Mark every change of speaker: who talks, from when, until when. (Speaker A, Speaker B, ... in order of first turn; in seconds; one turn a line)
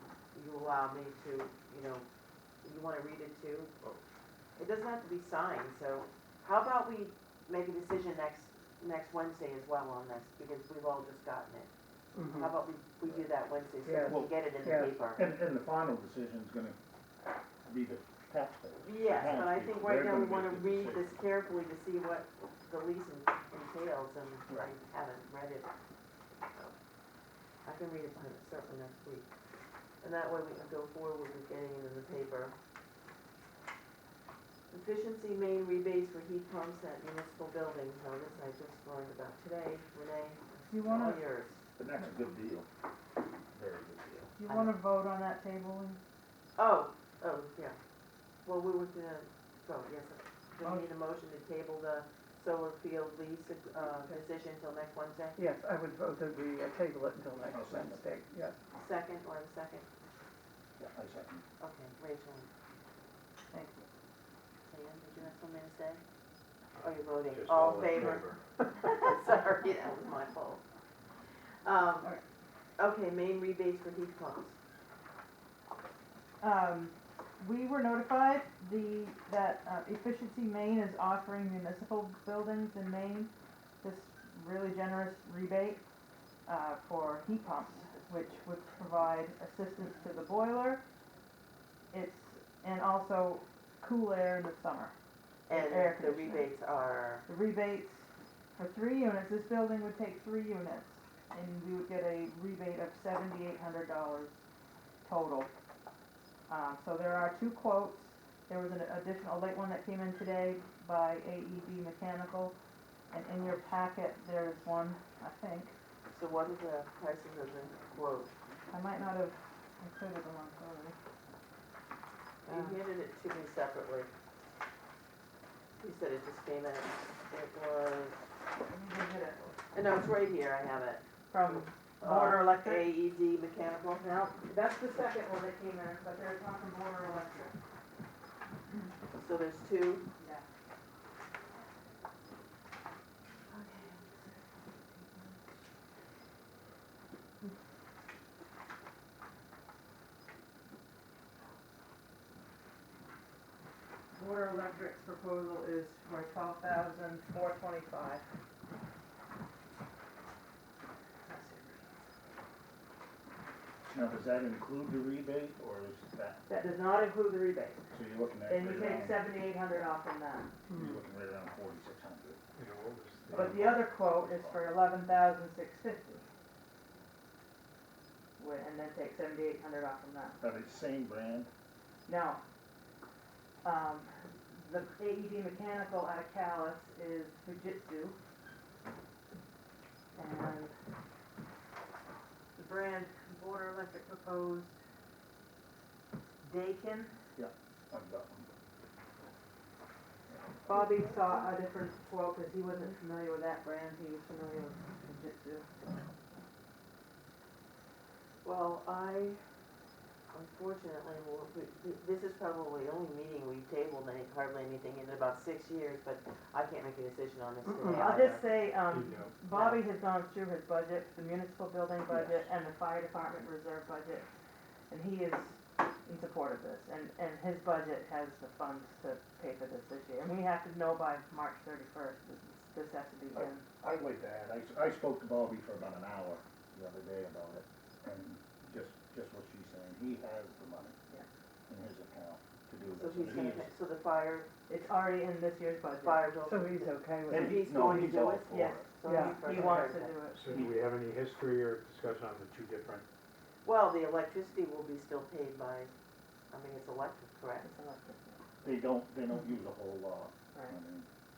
Speaker A: 0.3-2.0
Speaker A: 2.6-3.7
Speaker A: 4.5-11.7
Speaker B: 12.1-12.5
Speaker A: 12.2-15.3
Speaker B: 13.8-14.9
Speaker C: 15.1-16.8
Speaker C: 17.6-21.1
Speaker A: 18.8-25.7
Speaker A: 26.5-26.8
Speaker A: 27.6-29.3
Speaker A: 30.0-32.5
Speaker A: 34.7-41.6
Speaker D: 40.7-41.2
Speaker C: 41.8-42.7
Speaker C: 43.5-44.3
Speaker D: 44.4-46.0
Speaker A: 44.5-44.8
Speaker A: 46.6-47.8
Speaker A: 48.4-55.4
Speaker B: 55.4-58.5
Speaker C: 57.4-58.1
Speaker A: 58.7-59.9
Speaker C: 60.8-61.4
Speaker A: 61.6-62.5
Speaker D: 63.5-63.9
Speaker A: 64.7-66.0
Speaker A: 66.8-70.6
Speaker E: 67.3-68.4
Speaker A: 71.6-72.2
Speaker A: 72.8-74.6
Speaker D: 76.4-83.3
Speaker D: 83.8-85.8
Speaker D: 86.5-90.8
Speaker D: 91.9-94.9
Speaker A: 95.5-97.2
Speaker D: 95.5-96.5
Speaker D: 97.2-104.4
Speaker D: 105.0-105.5
Speaker D: 106.5-112.5
Speaker D: 113.1-115.7
Speaker A: 116.1-118.3
Speaker D: 118.7-121.0
Speaker A: 122.4-124.1
Speaker D: 122.5-122.8
Speaker A: 125.8-128.2
Speaker D: 128.6-129.5
Speaker A: 129.7-131.0
Speaker D: 131.3-132.9
Speaker A: 132.0-134.1
Speaker D: 134.0-137.5
Speaker A: 139.1-140.1
Speaker D: 140.2-140.4
Speaker A: 143.5-144.0
Speaker D: 154.1-158.3
Speaker D: 161.2-161.9
Speaker C: 163.9-166.5
Speaker D: 166.5-167.9
Speaker C: 167.9-169.9
Speaker D: 168.4-170.5
Speaker C: 170.7-172.4
Speaker B: 170.7-171.0
Speaker E: 172.6-173.7
Speaker C: 173.3-174.7
Speaker D: 173.3-176.2
Speaker D: 178.4-180.4
Speaker C: 180.4-181.5
Speaker D: 182.1-182.4
Speaker D: 183.6-188.2
Speaker D: 190.1-190.7
Speaker D: 192.6-194.7
Speaker D: 196.4-197.1
Speaker C: 197.3-198.5
Speaker D: 200.7-205.7
Speaker A: 200.7-201.4
Speaker A: 208.4-209.4
Speaker A: 210.3-218.5
Speaker B: 217.7-218.1
Speaker D: 217.9-224.3
Speaker E: 218.1-219.3
Speaker A: 219.5-219.8
Speaker C: 222.1-222.5
Speaker D: 224.9-233.6
Speaker C: 233.3-240.9
Speaker C: 241.7-243.7
Speaker A: 242.9-244.5
Speaker D: 244.7-246.3
Speaker A: 245.9-250.2
Speaker B: 246.4-247.7
Speaker C: 247.3-248.8
Speaker D: 247.8-250.6
Speaker B: 249.1-249.5
Speaker E: 250.3-253.0
Speaker A: 253.6-255.9
Speaker A: 256.5-257.7
Speaker D: 257.6-258.4
Speaker C: 258.6-261.1